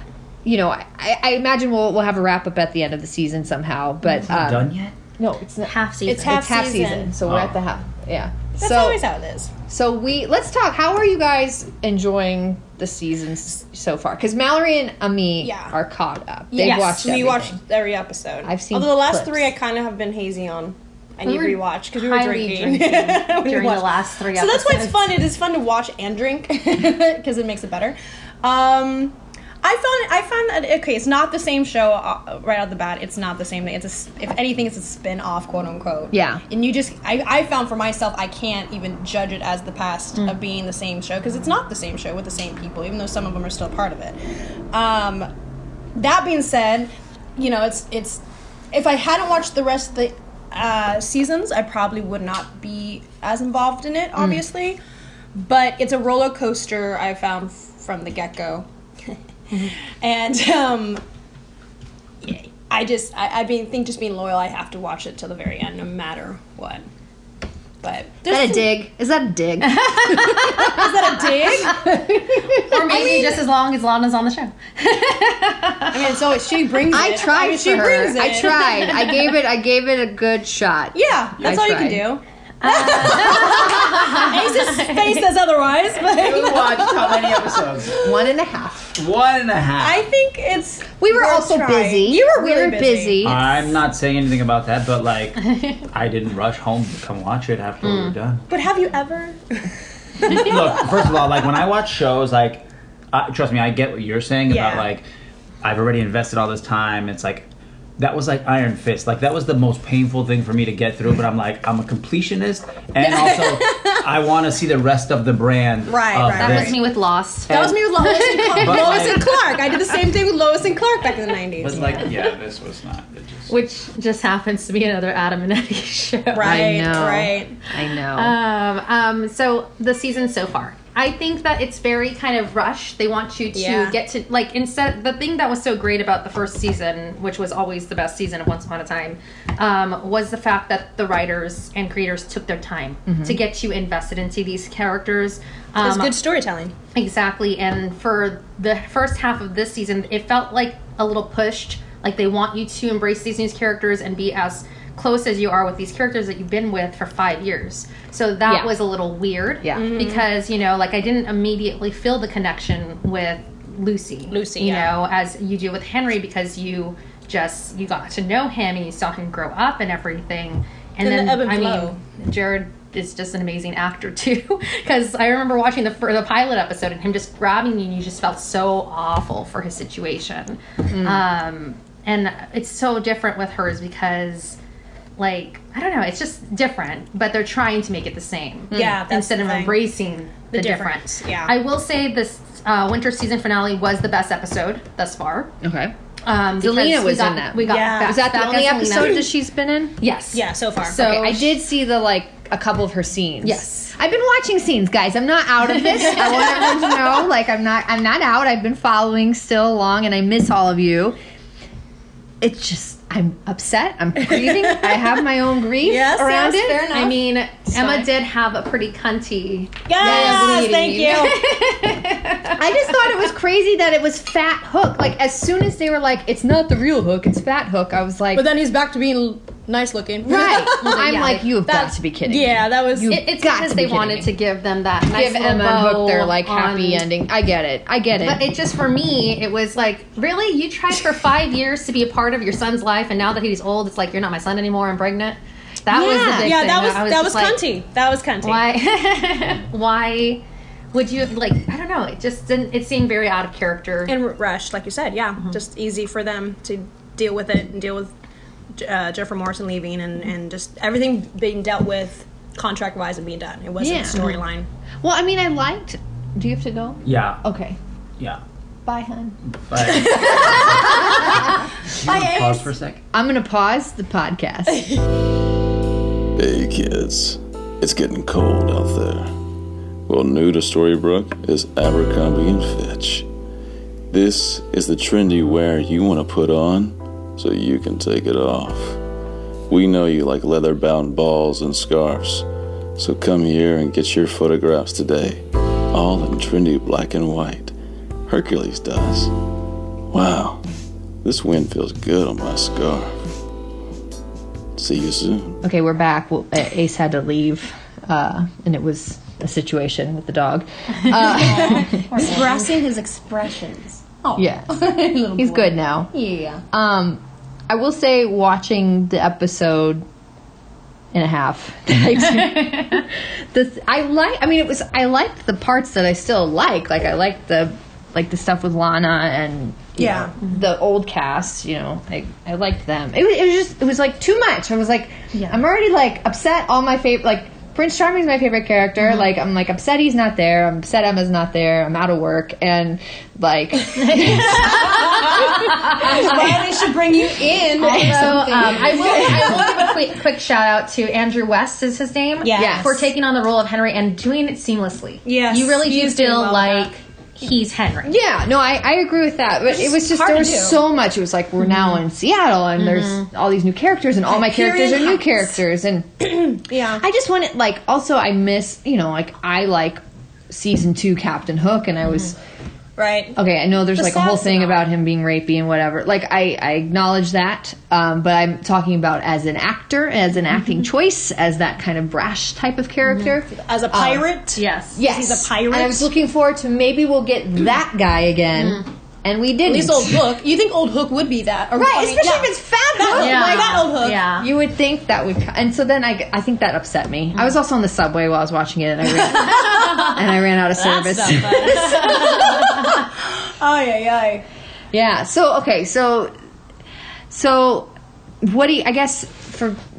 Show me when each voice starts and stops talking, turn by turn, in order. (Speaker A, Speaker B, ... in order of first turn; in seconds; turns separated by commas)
Speaker A: 0.4-9.0, Speaker B: 4.1-5.0, Speaker C: 5.6-6.5, Speaker D: 6.1-7.1, Speaker B: 7.2-7.6, Speaker D: 8.6-9.5, Speaker A: 9.7-17.6, Speaker D: 15.4-15.7, Speaker D: 16.5-44.2, Speaker A: 18.4-19.5, Speaker C: 21.2-25.1, Speaker A: 36.1-36.4, Speaker D: 44.7-45.3, Speaker D: 46.0-54.8, Speaker A: 54.2-54.4, Speaker D: 55.4-58.7, Speaker D: 59.5-61.0, Speaker D: 62.2-66.8, Speaker D: 67.8-68.7, Speaker A: 68.3-73.3, Speaker C: 69.8-70.4, Speaker D: 70.2-71.9, Speaker C: 72.7-75.9, Speaker D: 75.9-78.9, Speaker A: 76.9-82.1, Speaker D: 80.9-88.1, Speaker C: 82.6-85.2, Speaker B: 86.1-88.0, Speaker A: 88.0-89.0, Speaker B: 89.0-90.1, Speaker D: 89.8-93.3, Speaker A: 91.0-93.7, Speaker B: 93.2-98.5, Speaker C: 97.8-98.1, Speaker D: 98.5-99.7, Speaker D: 100.2-100.6, Speaker B: 100.3-105.1, Speaker D: 104.5-104.9, Speaker B: 105.6-116.8, Speaker D: 113.0-114.0, Speaker D: 115.9-116.8, Speaker C: 116.4-119.2, Speaker B: 117.5-117.8, Speaker D: 117.5-122.0, Speaker B: 118.6-119.3, Speaker B: 121.6-123.5, Speaker A: 121.7-122.0, Speaker C: 123.5-126.7, Speaker D: 126.3-127.6, Speaker A: 126.4-128.4, Speaker C: 128.2-146.2, Speaker D: 133.5-134.0, Speaker A: 143.1-143.4, Speaker D: 145.8-146.7, Speaker C: 146.9-184.6, Speaker A: 158.4-158.8, Speaker A: 159.6-160.0, Speaker D: 159.7-160.3, Speaker D: 164.3-164.9, Speaker D: 171.0-172.0, Speaker A: 180.9-181.2, Speaker C: 185.2-195.5, Speaker A: 188.7-189.0, Speaker D: 188.7-189.8, Speaker D: 190.5-191.5, Speaker A: 195.6-195.9, Speaker C: 196.2-199.3, Speaker A: 196.6-200.0, Speaker D: 197.7-199.2, Speaker C: 200.0-201.5, Speaker D: 200.3-201.2, Speaker A: 200.9-211.2, Speaker C: 203.4-203.9, Speaker A: 212.4-217.1, Speaker D: 214.3-215.2, Speaker D: 215.8-217.2, Speaker C: 216.9-222.6, Speaker A: 217.7-218.1, Speaker D: 219.9-221.4, Speaker A: 220.0-221.2, Speaker A: 222.6-228.5, Speaker D: 228.3-233.2, Speaker A: 230.2-234.3, Speaker C: 230.8-231.5, Speaker C: 233.1-237.1, Speaker A: 235.1-238.5, Speaker C: 238.2-247.7, Speaker D: 245.9-248.6, Speaker A: 245.9-246.6, Speaker C: 248.4-254.2, Speaker D: 254.1-258.1, Speaker D: 258.8-264.7, Speaker A: 263.8-264.4, Speaker A: 265.0-267.8, Speaker B: 267.1-267.4, Speaker A: 268.9-269.4, Speaker B: 269.5-271.2, Speaker D: 269.9-271.5, Speaker A: 270.2-271.4, Speaker B: 271.9-273.0, Speaker D: 272.0-272.7, Speaker A: 273.1-275.0, Speaker E: 276.4-279.3, Speaker E: 280.1-283.3, Speaker E: 284.1-289.0, Speaker E: 289.7-292.5, Speaker E: 293.0-297.7, Speaker E: 298.3-299.3, Speaker E: 300.1-300.6, Speaker E: 301.2-303.1, Speaker E: 304.8-305.6, Speaker A: 305.6-312.5, Speaker C: 311.1-312.6, Speaker D: 311.2-316.6, Speaker A: 314.4-316.1, Speaker A: 316.7-320.1, Speaker A: 321.1-346.7, Speaker C: 322.3-323.0, Speaker D: 330.0-330.3, Speaker C: 344.0-346.1, Speaker D: 344.6-350.0, Speaker A: 347.6-349.8, Speaker C: 347.8-358.2, Speaker D: 352.4-353.1, Speaker A: 352.6-353.0, Speaker D: 355.2-356.9, Speaker A: 358.1-372.4, Speaker D: 359.7-360.8, Speaker C: 362.8-363.3, Speaker D: 364.3-365.6, Speaker D: 366.5-367.0, Speaker D: 373.0-373.4, Speaker A: 373.4-384.3, Speaker D: 373.9-374.9, Speaker D: 383.5-386.1, Speaker C: 384.6-385.0, Speaker A: 384.9-390.3, Speaker C: 388.6-388.8, Speaker D: 389.6-394.2, Speaker A: 391.7-402.8, Speaker C: 393.1-394.5, Speaker D: 399.4-400.1, Speaker D: 400.8-404.4, Speaker A: 404.9-406.3, Speaker A: 407.3-409.8